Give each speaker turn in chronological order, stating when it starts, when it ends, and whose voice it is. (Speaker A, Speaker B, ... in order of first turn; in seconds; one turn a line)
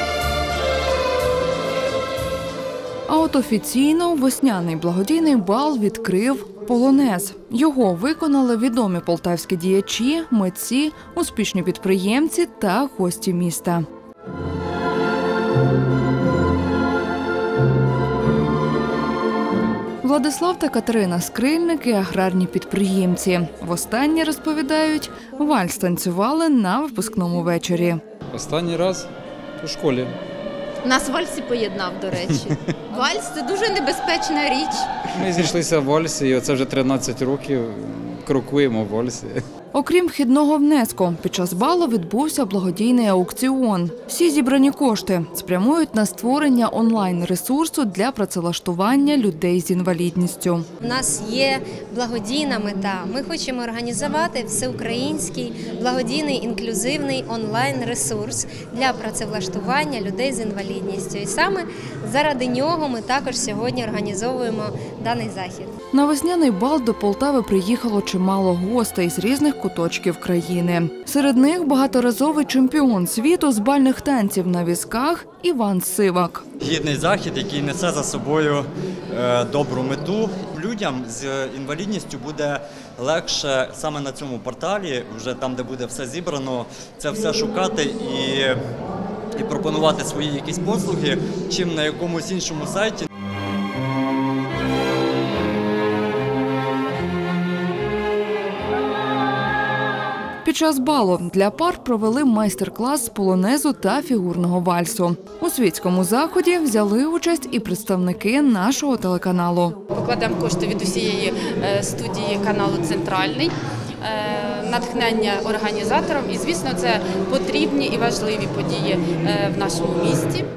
Speaker A: 3.1-13.8
Speaker A: 20.0-28.0
Speaker B: 28.3-30.2
Speaker C: 30.8-34.9
Speaker B: 35.1-39.4
Speaker A: 39.7-50.6
Speaker D: 50.8-65.7
Speaker A: 65.9-76.4
Speaker E: 76.6-88.6
Speaker E: 89.3-93.0
Speaker A: 100.4-109.7
Speaker F: 109.9-120.5